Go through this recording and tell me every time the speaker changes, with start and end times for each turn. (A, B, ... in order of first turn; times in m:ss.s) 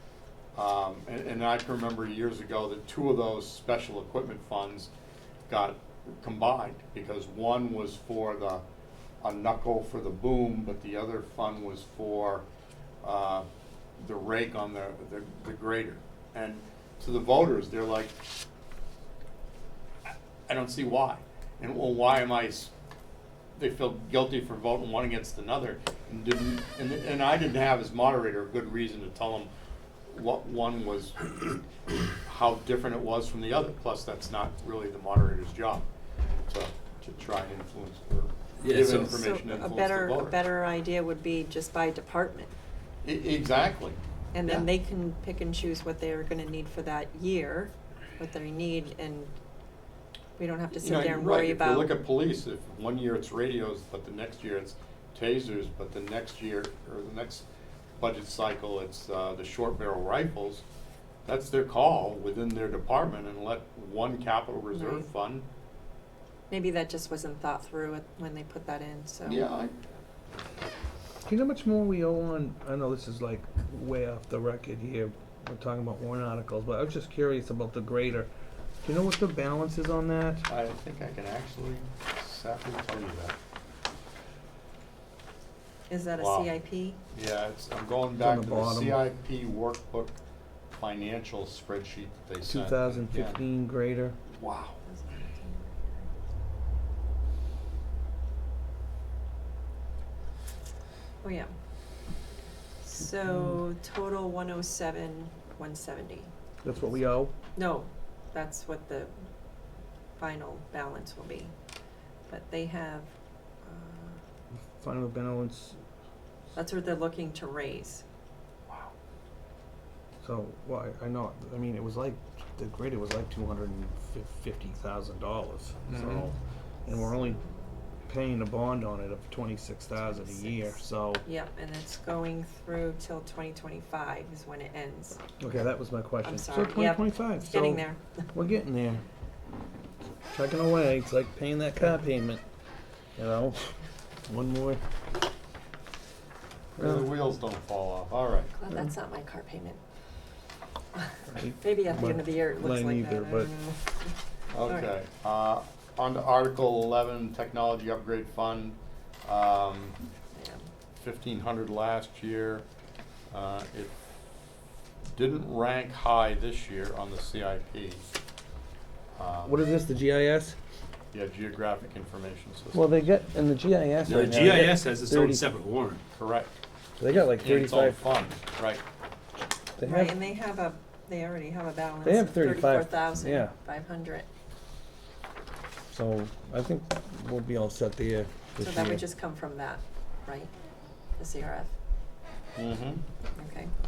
0:00.5-0:04.9 A
0:05.5-0:08.6 A
0:09.2-0:12.4 A
0:13.0-0:13.5 A
0:14.0-0:18.2 A
0:20.5-0:22.7 A
0:23.6-0:29.5 A
0:30.1-0:31.3 A
0:32.2-0:35.9 A
0:36.5-0:40.4 A
0:38.6-0:39.1 B
0:39.0-0:42.5 C
0:43.0-0:44.7 A
0:44.3-0:49.3 C
0:50.4-0:51.9 C
0:50.8-0:57.4 A
0:58.0-1:00.6 A
1:01.2-1:05.4 A
1:04.7-1:05.1 C
1:06.5-1:09.4 C
1:09.2-1:09.7 A
1:11.3-1:18.3 D
1:18.8-1:20.5 D
1:20.5-1:23.4 A
1:25.9-1:27.0 C
1:26.2-1:26.5 A
1:27.1-1:30.2 A
1:28.2-1:29.0 D
1:30.7-1:33.4 A
1:32.4-1:34.2 D
1:34.3-1:34.8 A
1:34.9-1:36.1 C
1:41.2-1:41.5 C
1:42.8-1:46.3 C
1:43.3-1:43.6 D
1:46.6-1:47.3 D
1:47.6-1:49.1 C
1:50.2-1:51.5 C
1:52.3-1:53.1 C
1:53.6-1:54.2 C
1:54.5-1:55.8 D
1:56.5-1:58.0 C
2:00.2-2:06.3 D
2:05.9-2:06.3 A
2:06.8-2:07.4 D
2:08.1-2:11.2 D
2:10.0-2:15.2 C
2:15.4-2:17.8 D
2:16.2-2:18.0 C
2:18.3-2:19.0 D
2:20.3-2:22.4 D
2:23.2-2:23.7 D
2:24.3-2:24.8 D
2:26.8-2:28.5 A
2:28.5-2:29.8 C
2:31.0-2:33.9 C
2:31.3-2:33.5 D
2:34.5-2:40.0 A
2:40.3-2:40.7 C
2:41.0-2:42.6 A
2:43.3-2:43.9 A
2:45.1-2:48.0 A
2:49.2-2:49.6 A
2:49.4-2:50.6 D
2:51.1-2:53.1 A
2:52.7-2:55.4 D
2:54.0-2:56.0 B
2:56.2-2:56.5 A
2:57.0-2:58.0 D
2:57.2-2:58.8 A
2:59.8-3:00.1 D
2:59.8-3:04.3 C
3:02.0-3:03.5 D
3:05.9-3:09.0 D
3:08.6-3:10.5 C
3:11.2-3:11.7 C
3:12.6-3:13.0 A
3:13.4-3:13.7 C